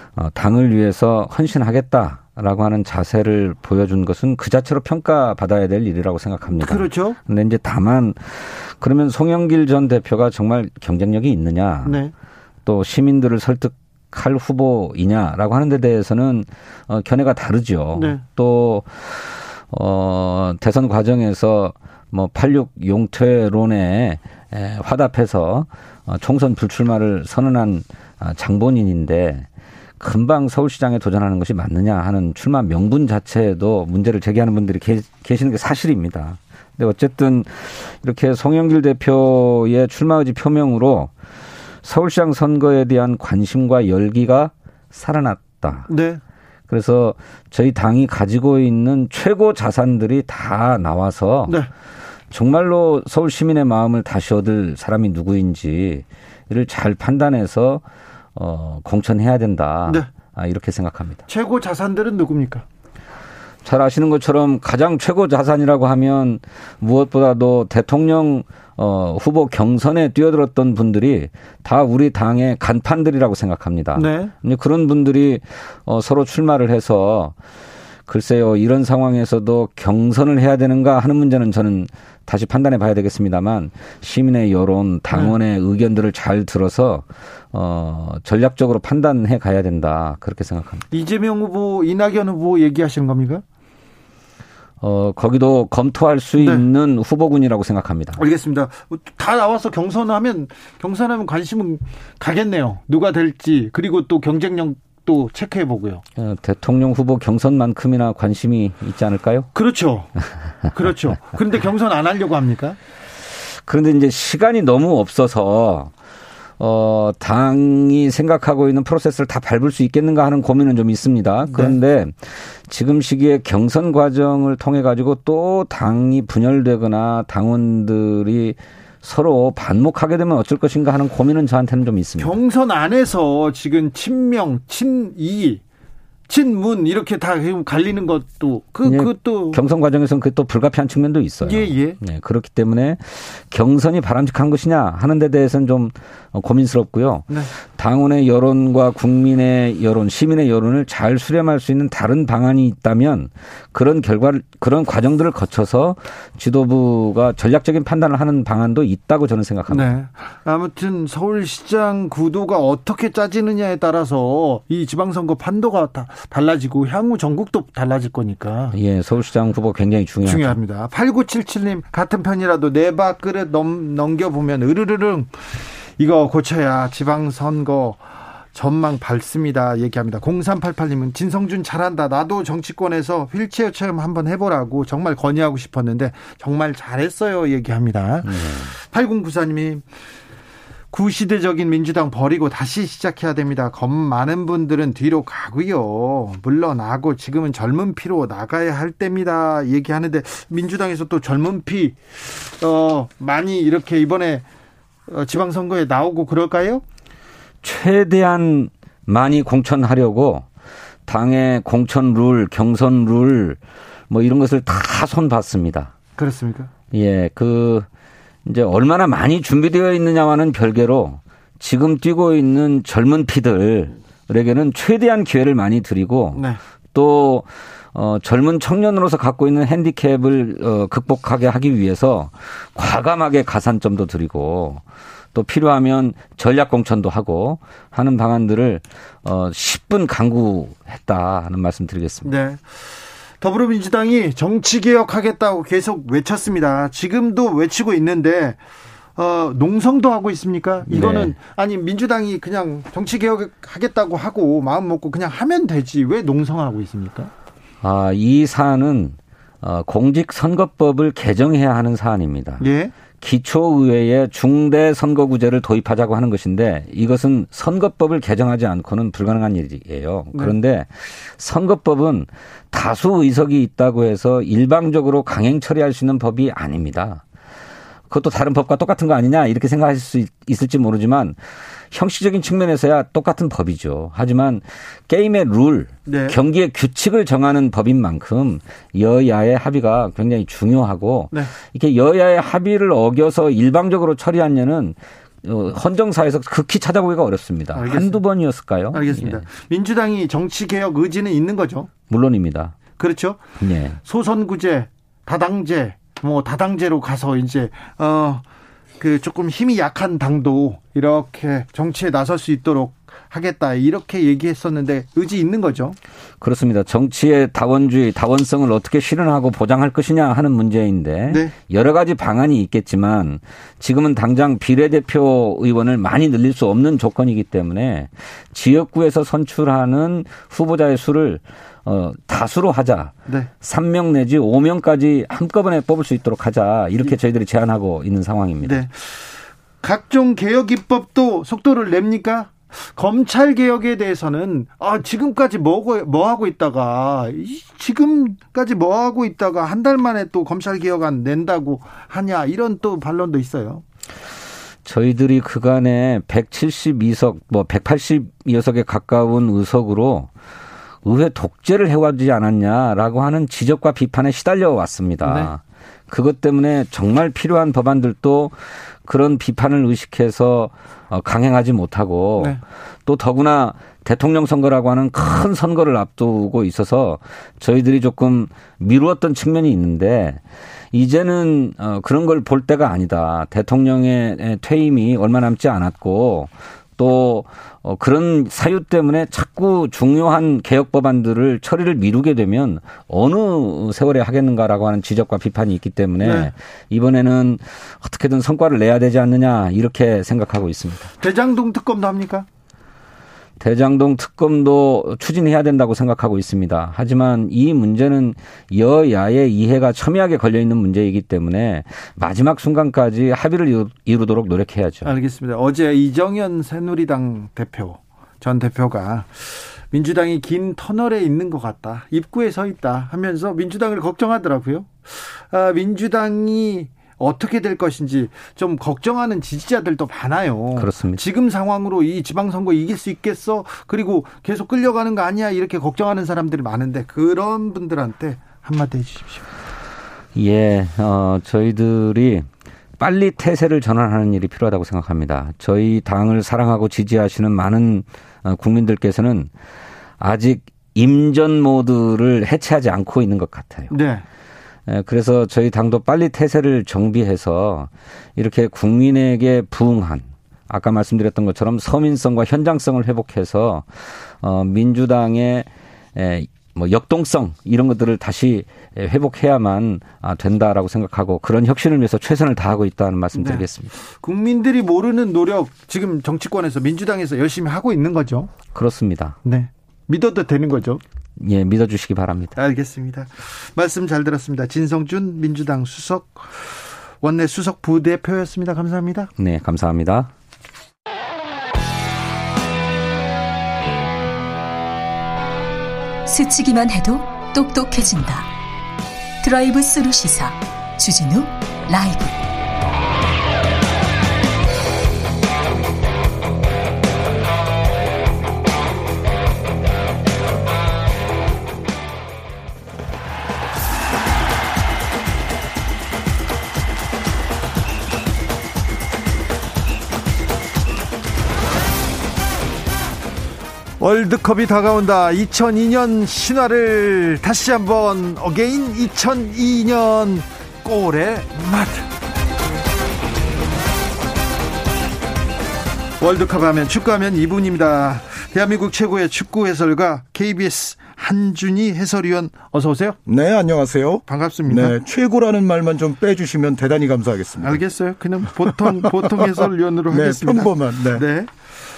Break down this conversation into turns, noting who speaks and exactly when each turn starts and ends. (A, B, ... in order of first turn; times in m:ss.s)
0:00.2-0:12.0 A
0:06.6-0:07.2 B
0:11.8-0:12.1 B
0:12.6-0:29.4 A
0:18.0-0:18.2 B
0:30.0-0:41.1 A
0:41.8-0:45.9 A
0:45.9-0:46.2 B
0:46.7-0:51.6 A
0:52.3-0:57.8 A
0:58.4-1:01.2 A
1:01.3-1:02.6 B
1:03.6-1:17.4 A
1:14.0-1:14.3 B
1:18.1-1:30.8 A
1:30.9-1:33.4 B
1:34.8-1:38.2 A
1:36.4-1:36.6 B
1:38.2-1:46.0 B
1:46.2-1:49.5 A
1:49.6-1:50.1 B
1:50.7-1:52.8 B
1:53.6-1:55.9 A
1:56.6-2:12.4 A
2:01.5-2:01.8 B
2:12.2-2:15.6 B
2:16.3-2:19.6 B
2:18.8-2:39.9 A
2:21.4-2:22.0 B
2:39.7-2:48.8 B
2:48.7-2:50.6 A
2:50.2-2:55.4 B
2:56.0-3:09.8 B
3:08.3-3:08.7 A
3:10.9-3:24.4 B
3:25.1-3:26.8 B
3:27.6-3:30.4 A
3:31.1-3:35.9 A
3:36.2-3:36.7 B
3:36.9-3:37.9 A
3:38.4-3:54.8 A
3:55.3-4:02.3 A
4:02.2-4:02.9 B
4:03.4-4:08.6 B
4:09.2-4:17.3 B
4:10.8-4:11.4 A
4:17.8-4:22.6 A
4:22.6-4:22.9 B
4:23.2-4:37.2 A
4:38.1-4:41.4 A
4:41.9-4:59.4 A
4:46.1-4:46.4 B
4:57.7-4:58.2 B
4:58.9-5:01.9 B
5:02.1-5:02.8 A
5:03.0-5:03.4 B
5:03.6-5:04.0 A
5:04.0-5:08.4 B
5:09.0-5:16.0 B
5:16.4-5:38.8 A
5:38.6-5:39.1 B
5:39.8-5:53.8 B
5:54.8-6:00.3 A
6:01.0-6:20.4 A
6:05.2-6:05.5 B
6:20.9-6:41.1 A
6:36.2-6:36.5 B
6:41.2-6:42.4 B
6:43.6-6:55.1 A
6:55.0-7:19.5 B
7:10.8-7:11.3 A
7:20.4-7:22.5 A
7:23.0-7:29.5 A
7:30.2-7:34.0 A
7:33.9-7:34.2 B
7:34.9-7:53.9 A
7:53.4-7:53.6 B
7:54.2-7:58.5 B
7:58.7-7:59.4 A
7:59.4-8:01.0 B
8:01.4-8:02.5 A
8:02.6-8:09.3 B
8:09.4-8:10.3 A
8:16.3-8:18.5 C
8:19.4-8:22.4 C
8:44.0-8:52.1 B
8:56.2-9:03.2 B
9:03.3-9:07.8 D
9:04.3-9:05.0 B
9:07.6-9:11.8 B
9:08.6-9:11.3 D